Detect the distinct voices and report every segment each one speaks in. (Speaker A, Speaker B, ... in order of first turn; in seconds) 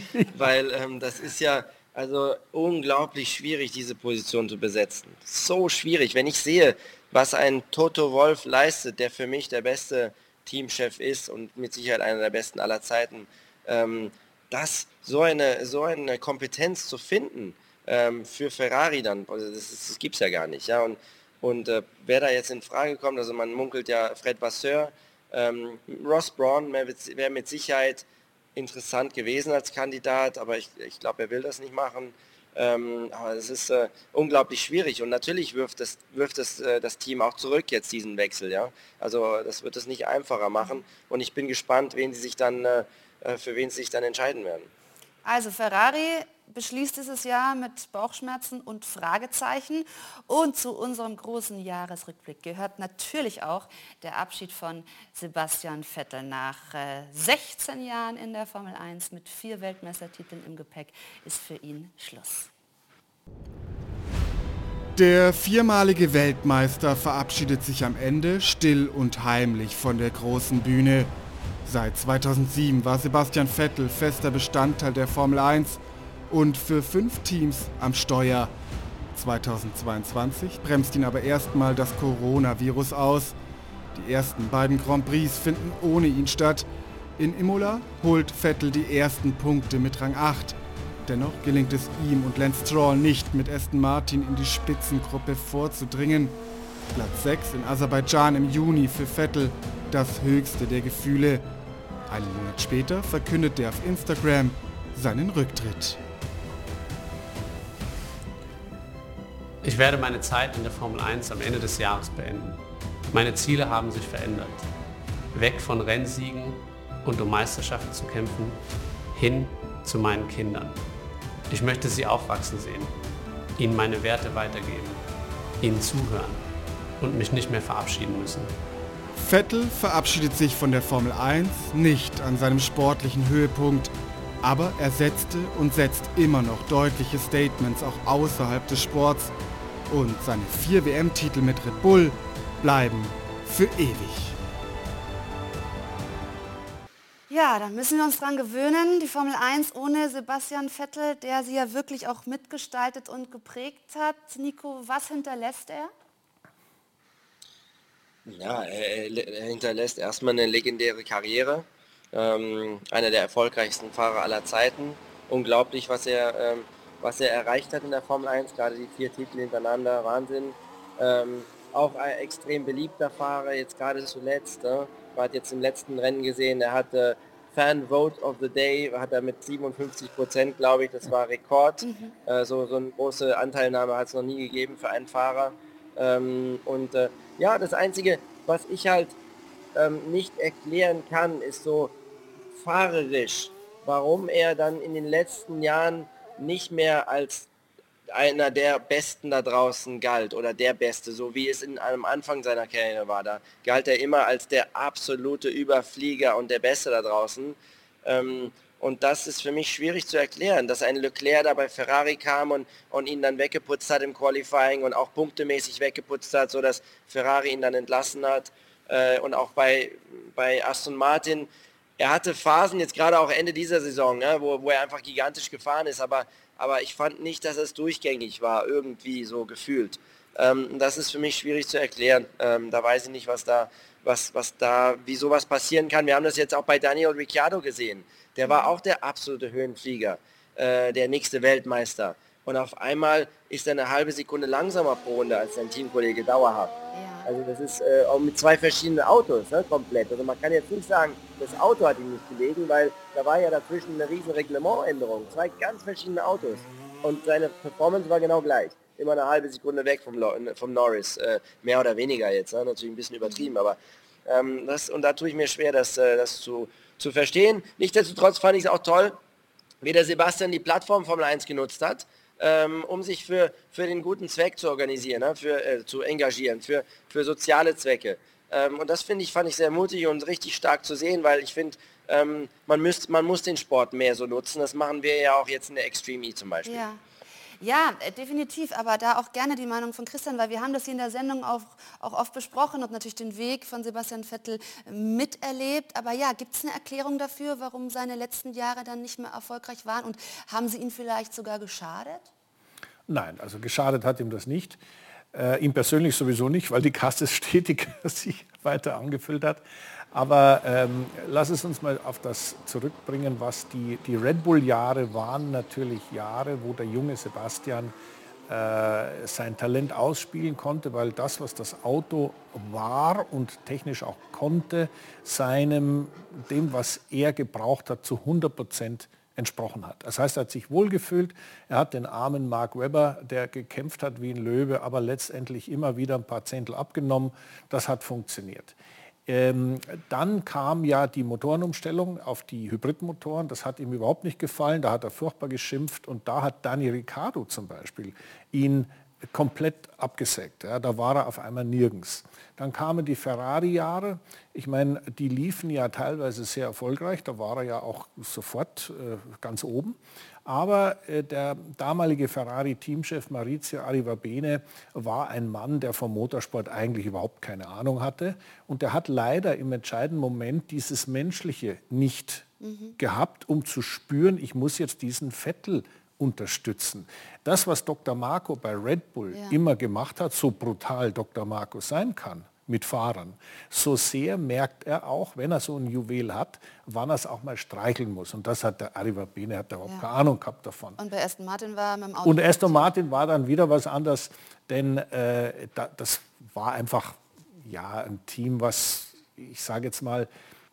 Speaker A: 0.3-44.7, 158.2-189.2, 189.8-191.9, 192.6-197.5, 198.1-246.7, 247.2-269.2, 269.8-286.8
Speaker B: 45.2-62.5, 147.3-155.9, 181.8-182.1, 246.9-247.3, 286.6-287.0, 287.6-302.3, 372.6-372.9, 391.0-392.9
Speaker C: 65.0-71.1, 71.7-78.5, 79.1-83.4, 83.9-96.4, 96.9-101.4, 102.1-106.0, 129.1-139.3, 139.9-144.4
Speaker D: 109.6-114.7, 115.3-120.8, 121.5-123.0, 123.6-125.0, 125.6-126.4, 127.0-128.5
Speaker E: 303.1-304.8, 305.3-317.9, 318.5-391.0, 392.2-400.3